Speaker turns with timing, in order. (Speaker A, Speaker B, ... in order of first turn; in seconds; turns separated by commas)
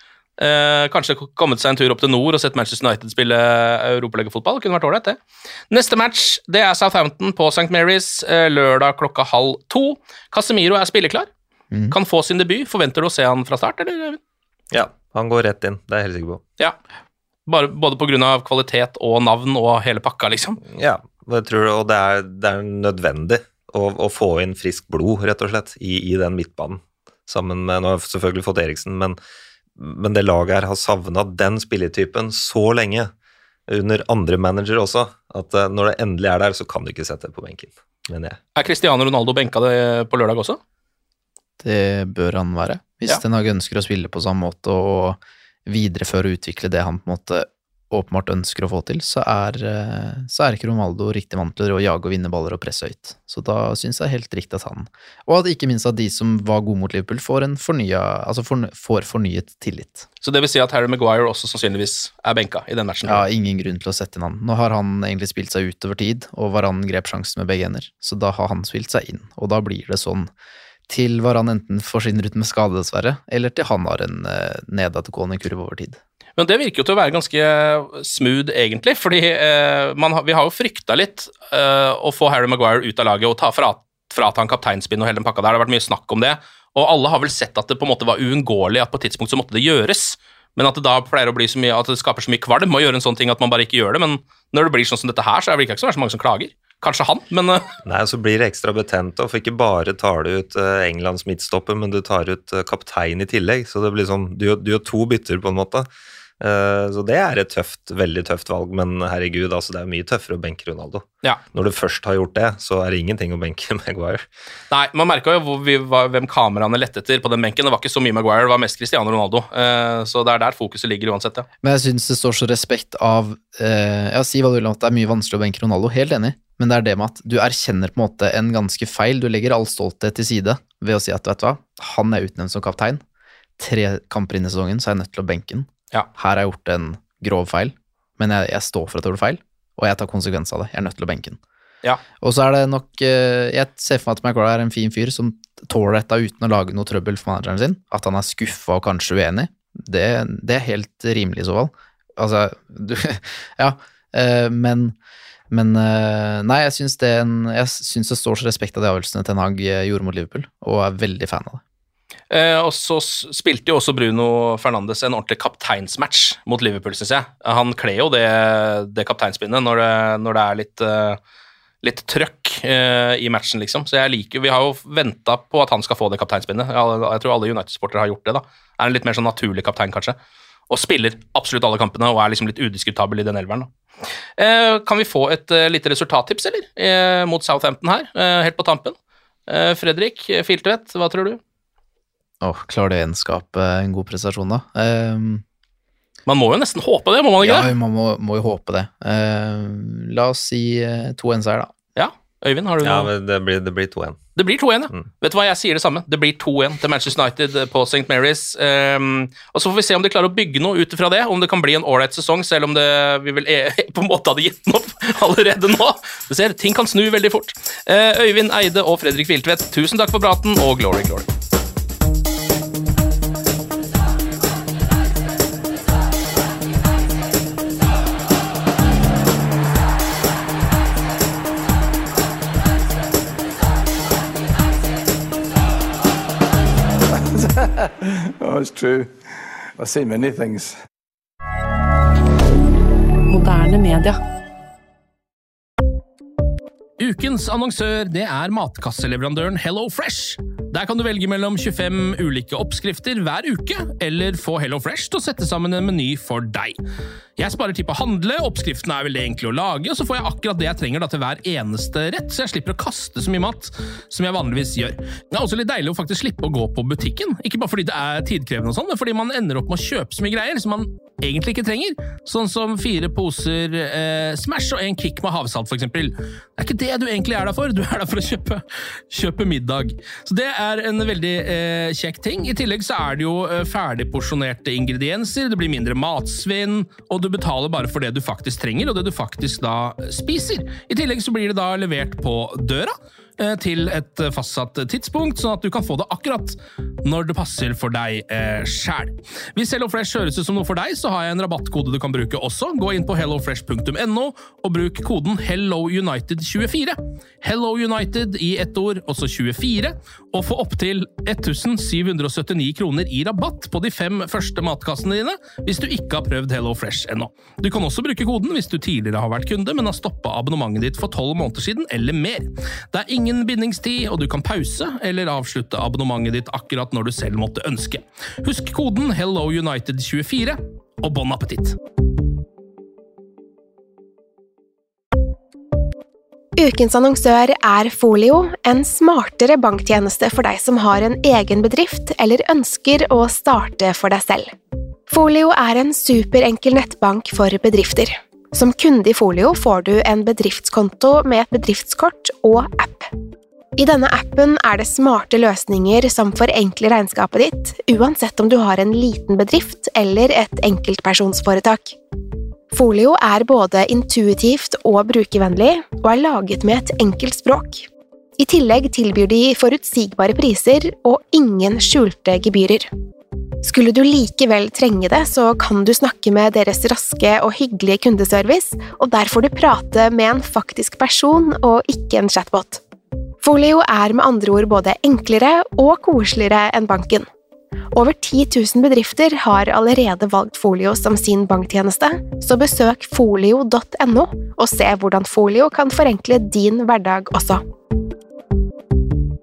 Speaker A: 0.4-5.2, Speaker A: 5.7-11.3, Speaker A: 11.9-14.2, Speaker B: 14.7-16.4, Speaker A: 17.5-20.6, Speaker B: 20.6-29.2, Speaker B: 29.8-33.1, Speaker B: 33.7-38.4, Speaker A: 38.5-40.6, Speaker C: 41.6-60.0, Speaker A: 60.2-63.2, Speaker C: 63.0-70.3, Speaker C: 70.9-76.0, Speaker A: 76.4-97.7, Speaker B: 97.8-105.9, Speaker B: 106.4-114.2, Speaker A: 114.7-121.5, Speaker C: 121.6-133.0, Speaker C: 133.6-141.4, Speaker C: 142.2-154.9, Speaker C: 155.5-161.6, Speaker A: 162.3-171.2, Speaker A: 171.8-180.2, Speaker A: 180.7-183.7, Speaker A: 184.4-188.9, Speaker A: 189.5-191.4, Speaker C: 192.4-195.4, Speaker A: 196.2-197.7, Speaker C: 197.4-201.7, Speaker A: 201.9-203.1, Speaker B: 202.8-204.2, Speaker A: 204.3-221.3, Speaker D: 237.4-237.9, Speaker D: 238.4-239.1, Speaker D: 239.8-240.7, Speaker A: 247.0-256.8, Speaker A: 257.4-331.8, Speaker E: 336.6-344.5, Speaker E: 345.1-353.1, Speaker E: 353.8-362.0, Speaker E: 362.7-367.9, Speaker E: 368.4-372.9, Speaker E: 373.6-382.8, Speaker E: 383.4-387.2, Speaker E: 387.9-397.6